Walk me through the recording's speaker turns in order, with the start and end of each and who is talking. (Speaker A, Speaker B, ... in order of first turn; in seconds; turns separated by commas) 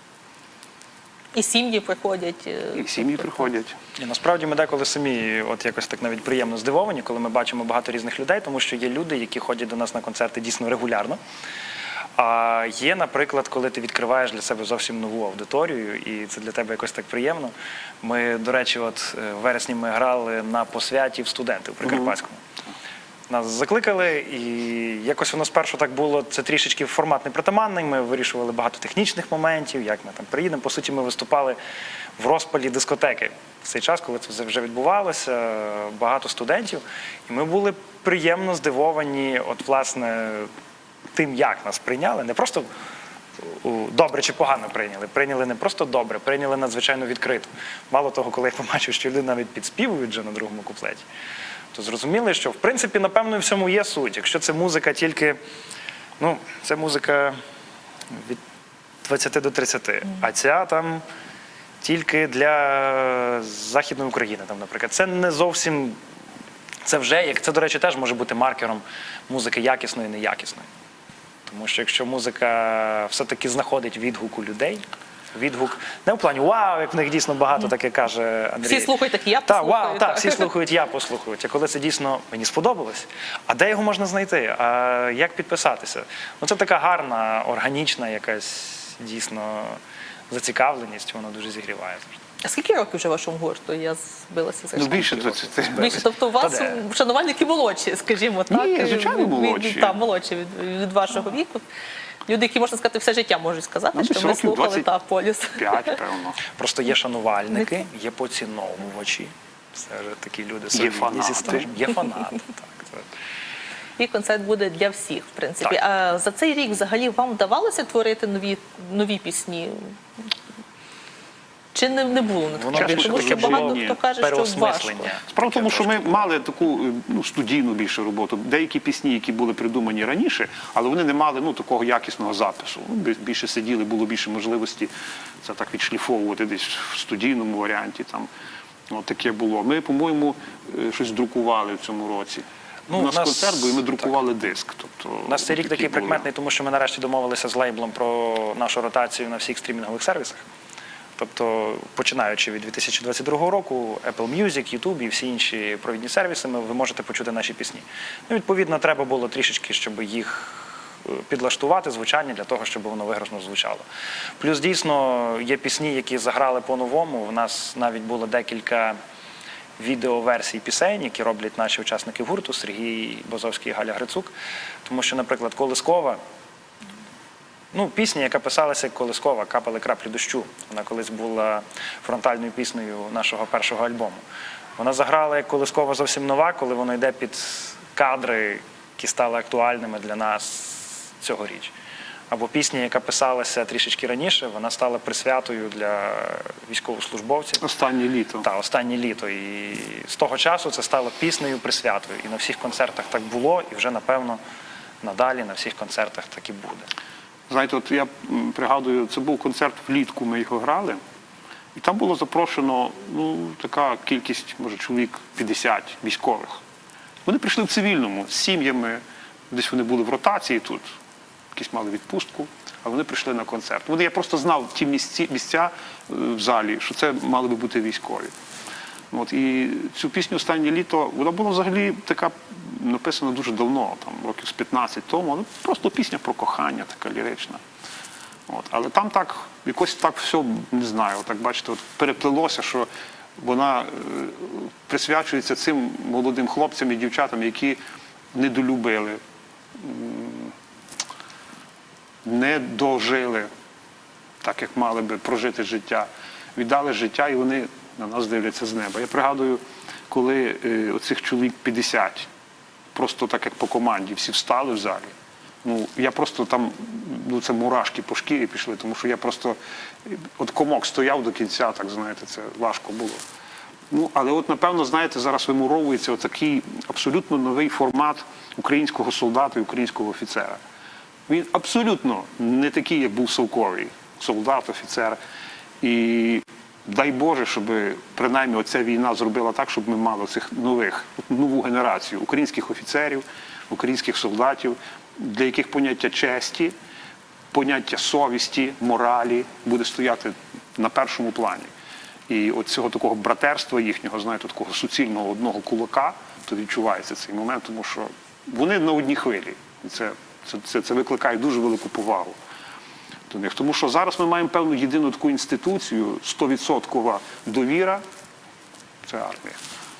Speaker A: 1.3-3.5, Speaker B: 2.7-3.8, Speaker C: 4.0-11.2, Speaker C: 12.2-22.4, Speaker C: 23.3-31.6, Speaker C: 32.2-40.5, Speaker C: 41.1-42.7, Speaker C: 43.4-51.0, Speaker C: 51.7-55.4, Speaker C: 56.2-57.4, Speaker C: 58.1-58.4, Speaker C: 59.0-61.0, Speaker C: 61.8-66.0, Speaker C: 66.8-70.7, Speaker C: 71.5-74.8, Speaker C: 75.3-78.9, Speaker A: 78.6-80.5, Speaker C: 79.5-89.8, Speaker C: 90.3-92.2, Speaker A: 92.4-101.6, Speaker B: 94.7-96.0, Speaker C: 95.2-96.8, Speaker B: 98.5-100.0, Speaker A: 102.3-106.0, Speaker B: 103.9-104.9, Speaker B: 105.5-106.4, Speaker C: 106.5-113.0, Speaker B: 110.7-111.7, Speaker A: 114.0-120.0, Speaker A: 121.7-125.1, Speaker C: 122.5-126.2, Speaker B: 122.7-124.0, Speaker B: 125.3-138.3, Speaker B: 138.9-146.3, Speaker C: 142.9-144.1, Speaker C: 145.3-150.4, Speaker C: 151.2-163.8, Speaker C: 164.4-169.0, Speaker C: 169.8-174.3, Speaker C: 174.8-176.2, Speaker C: 177.7-184.2, Speaker C: 184.8-191.7, Speaker C: 192.3-197.6, Speaker B: 197.6-198.4, Speaker C: 198.4-204.4, Speaker C: 205.0-206.9, Speaker B: 207.5-211.0, Speaker B: 211.7-216.6, Speaker B: 217.2-220.8, Speaker B: 221.5-228.3, Speaker B: 229.1-237.6, Speaker B: 238.5-247.8, Speaker B: 248.3-249.2, Speaker B: 249.7-250.5, Speaker B: 252.2-253.5, Speaker B: 254.4-262.3, Speaker B: 262.9-273.2, Speaker B: 273.9-280.6, Speaker B: 281.3-285.2, Speaker B: 285.8-296.7, Speaker B: 297.5-301.7, Speaker B: 302.3-312.4, Speaker B: 313.3-318.0, Speaker B: 319.0-319.6